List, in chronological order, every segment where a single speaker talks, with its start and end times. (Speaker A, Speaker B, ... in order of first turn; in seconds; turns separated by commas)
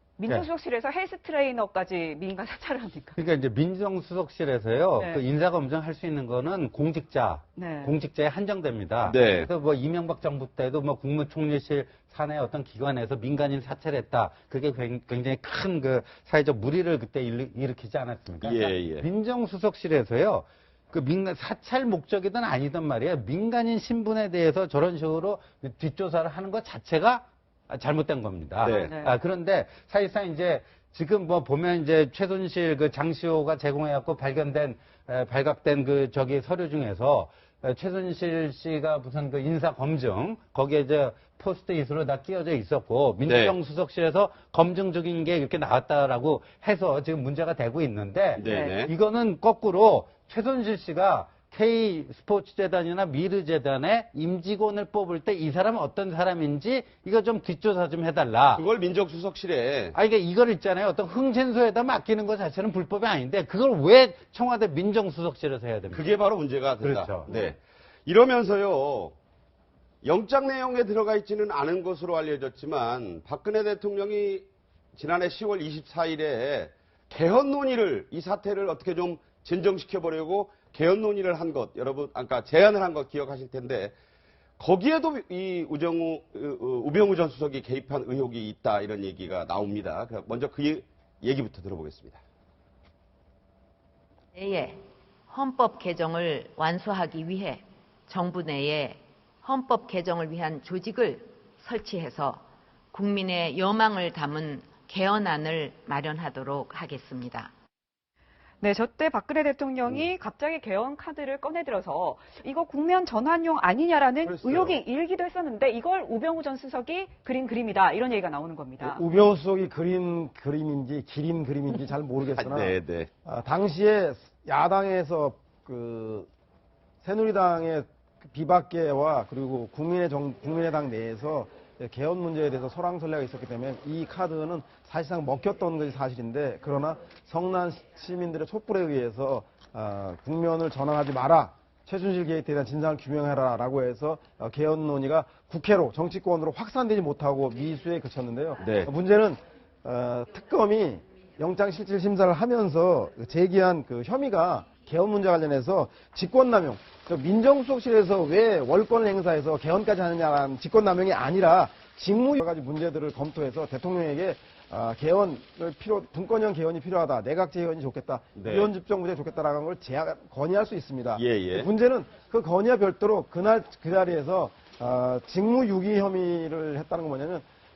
Speaker A: 0.2-3.2, Speaker B: 3.2-58.6, Speaker A: 5.0-5.2, Speaker A: 7.5-8.0, Speaker C: 9.0-9.5, Speaker C: 18.4-19.1, Speaker C: 28.6-28.9, Speaker A: 28.7-29.1, Speaker C: 43.2-43.5, Speaker C: 48.4-48.9, Speaker A: 48.4-48.8, Speaker C: 58.5-60.0, Speaker B: 59.9-66.2, Speaker C: 65.9-69.2, Speaker B: 66.8-67.3, Speaker C: 70.0-83.9, Speaker C: 84.6-92.2, Speaker D: 94.3-102.4, Speaker D: 102.9-107.5, Speaker A: 108.6-119.0, Speaker C: 114.2-114.8, Speaker E: 118.8-126.3, Speaker C: 122.3-123.1, Speaker E: 127.0-177.4, Speaker C: 148.6-148.9, Speaker C: 168.4-168.7, Speaker C: 171.1-171.7